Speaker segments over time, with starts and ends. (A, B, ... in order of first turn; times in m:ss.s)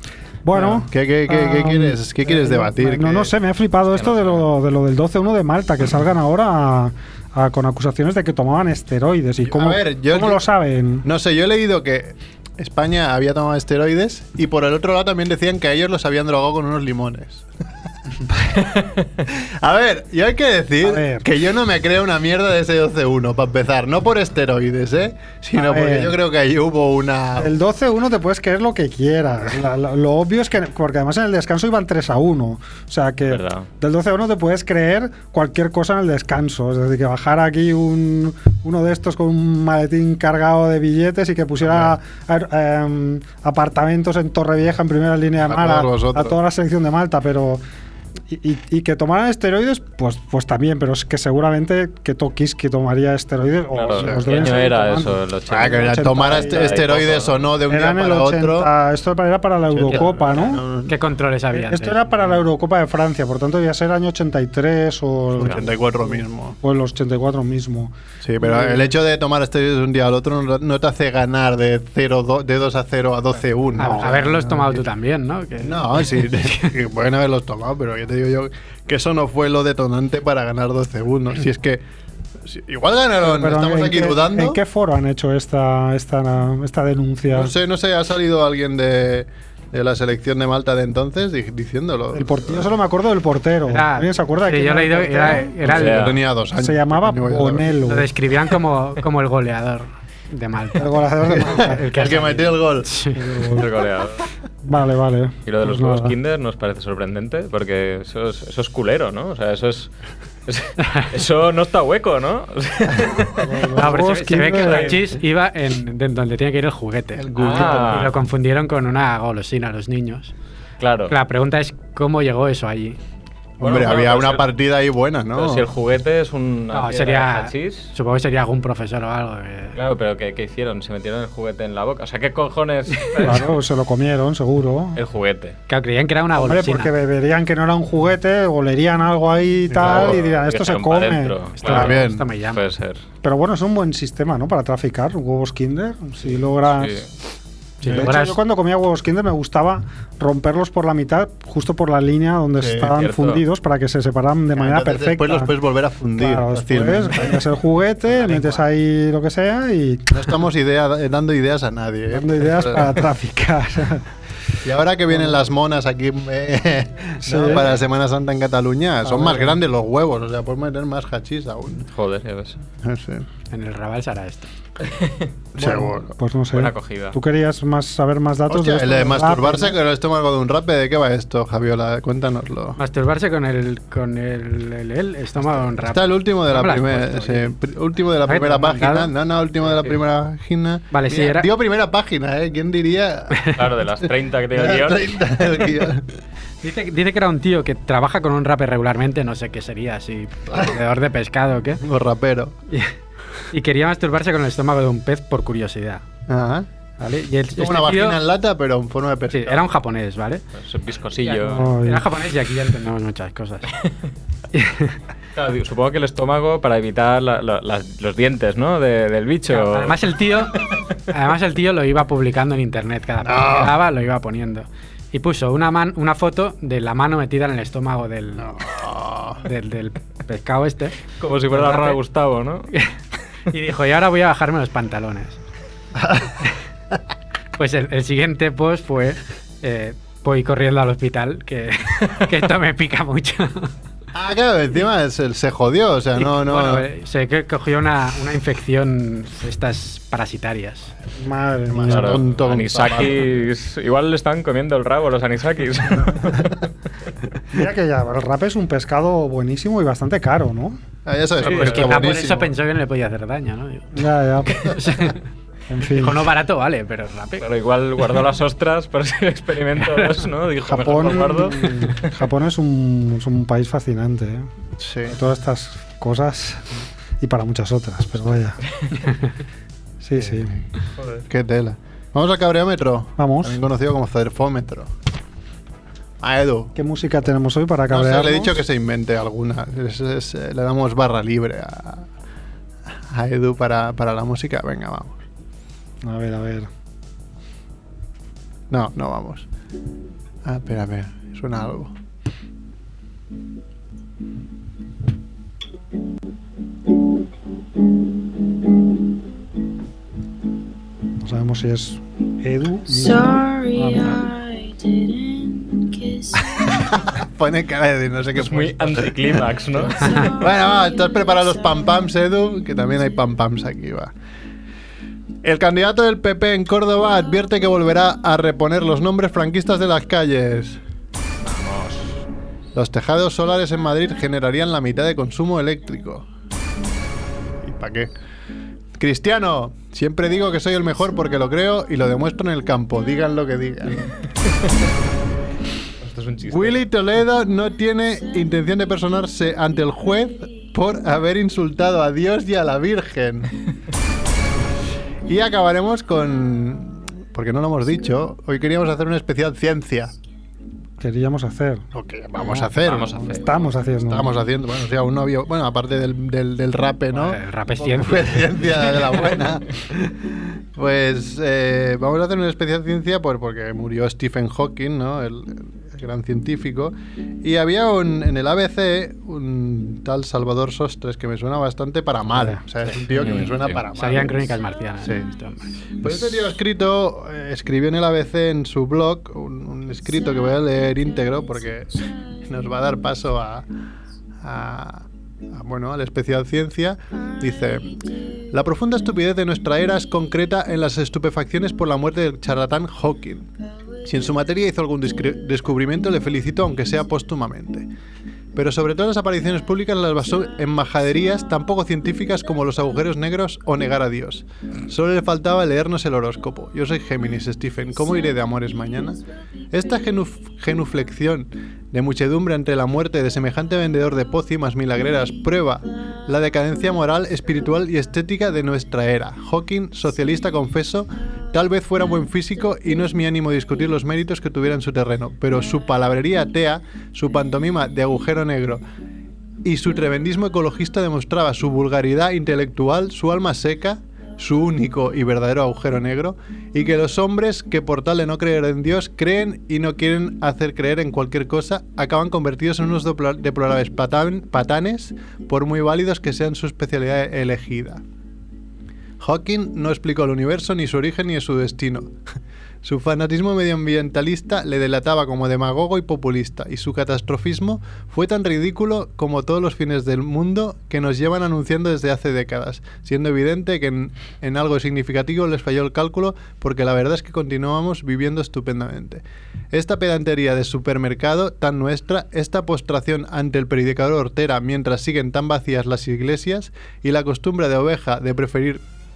0:00.4-0:11.0 A
0:00.5-0:03.3 B
0:03.9-0:04.4 C
0:09.4-0:10.5 B
0:11.0-0:17.5 B
0:18.7-0:19.1 C
0:19.3-0:27.6 B
0:20.8-0:21.3 A
0:25.6-0:26.2 A
0:27.4-0:47.6 A
0:33.3-0:33.7 C
0:41.6-0:41.9 B
0:45.4-0:46.4 B
0:48.3-0:56.9 A
0:53.7-0:57.4 C
0:54.0-0:54.6 B
0:55.5-0:58.7 B
0:57.7-1:00.6 A
0:59.7-1:01.0 B
0:59.9-1:00.2 D
1:00.9-1:02.0 D
1:01.5-1:08.8 A
1:05.4-1:06.6 B
1:08.2-1:14.9 B
1:13.8-1:16.7 D
1:15.6-1:21.8 B
1:22.4-1:24.6 B
1:23.2-1:27.5 A
1:27.3-1:32.7 B
1:32.1-1:35.6 A
1:33.7-1:36.0 D
1:35.2-1:37.8 B
1:35.7-1:36.2 C
1:36.6-1:38.1 A
1:37.8-1:43.2 D
1:40.8-1:41.8 A
1:41.3-1:43.0 B
1:43.2-1:43.7 A
1:43.6-1:44.2 C
1:44.7-1:46.1 A
1:45.5-1:50.0 C
1:50.5-1:55.1 C
1:53.4-1:55.0 A
1:53.8-2:00.3 D
1:57.2-1:58.1 B
1:57.4-1:58.1 C
2:00.8-2:01.2 C
2:01.1-2:03.0 D
2:03.6-2:04.4 C
2:03.6-2:05.7 B
2:05.4-2:07.9 C
2:06.7-2:09.8 D
2:09.8-2:13.5 C
2:13.2-2:15.0 A
2:15.0-2:15.6 C
2:15.7-2:16.9 D
2:16.4-2:21.3 A
2:19.7-2:20.2 B
2:19.8-2:23.0 C
2:21.6-2:22.6 D
2:21.7-2:22.3 B
2:23.2-2:27.0 A
2:26.8-2:27.1 C
2:27.8-2:28.4 D
2:27.8-2:28.1 B
2:27.9-2:35.5 A
2:32.6-2:32.9 B
2:32.8-2:33.4 C
2:34.6-2:37.5 B
2:36.2-2:40.2 A
2:40.1-2:43.0 B
2:42.1-2:44.1 A
2:44.6-2:51.9 B
2:47.2-2:47.7 A
2:49.1-2:49.6 A
2:51.9-2:52.6 C
2:52.8-2:53.3 B
2:53.5-2:54.5 D
2:54.8-2:55.3 C
2:55.6-2:56.2 B
2:55.6-2:59.8 A
2:56.5-2:57.2 C
2:58.5-3:02.8 B
3:02.8-3:07.5 D
3:05.8-3:16.1 B
3:08.2-3:09.1 D
3:10.9-3:11.5 D
3:13.6-3:15.2 C
3:16.6-3:21.8 D
3:20.5-3:20.8 B
3:21.8-3:22.5 B
3:22.7-3:23.0 D
3:23.5-3:26.0 D
3:26.3-3:26.7 B
3:27.0-3:28.2 D
3:27.5-3:29.6 B
3:29.3-3:30.4 D
3:30.6-3:31.7 C
3:31.2-3:33.7 D
3:31.5-3:32.0 A
3:34.5-3:35.0 D
3:35.4-3:40.0 C
3:39.5-3:48.6 D
3:43.2-3:43.8 B
3:48.4-3:49.4 B
3:49.4-3:52.0 D
3:51.2-3:52.7 C
3:53.5-3:55.4 D
3:56.0-3:56.5 B
3:57.6-4:03.7 D
4:04.1-4:06.9 B
4:06.2-4:10.9 D
4:11.2-4:12.2 A
4:11.7-4:13.3 B
4:11.8-4:16.6 C
4:17.5-4:20.8 A
4:21.0-4:22.5 B
4:21.4-4:22.2 C
4:21.5-4:24.0 D
4:23.9-4:24.6 A
4:24.6-4:25.2 D
4:25.7-4:26.3 A
4:25.9-4:27.5 D
4:27.4-4:32.1 C
4:30.7-4:34.5 A
4:34.8-4:35.2 B
4:35.1-4:38.6 A
4:40.0-4:40.5 A
4:40.2-4:40.7 B
4:41.0-4:41.2 C
4:41.3-4:44.9 B
4:43.2-4:43.6 A
4:46.2-4:46.7 B
4:46.8-4:48.6 A
4:47.9-4:52.1 B
4:53.0-4:55.2 B
4:56.0-4:56.7 A
4:58.7-4:59.5 B
5:00.4-5:01.9 B
5:11.2-5:14.2 A
5:12.9-5:17.0 E
5:16.6-5:24.1 B
5:18.4-5:20.2 C
5:20.0-5:23.0 E
5:25.4-5:30.8 B
5:31.4-5:32.2 C
5:32.7-5:36.3 B
5:37.6-5:38.1 B
5:39.0-5:44.1 B
5:46.0-5:46.9 C
5:46.5-5:53.5 B
5:55.2-6:00.1 B
6:01.0-6:01.9 A
6:01.9-6:03.3 B
6:02.4-6:04.4 A
6:02.8-6:03.7 C
6:04.1-6:25.4 B
6:07.1-6:09.3 D
6:22.9-6:23.3 D
6:23.2-6:23.8 C
6:24.0-6:25.9 D
6:26.0-6:33.7 B
6:34.4-6:38.0 B
6:38.5-6:43.5 B
6:44.0-6:47.9 B
6:48.6-7:18.8 B
7:19.6-7:38.0 B
7:39.2-7:42.2 B
7:42.8-8:08.8 B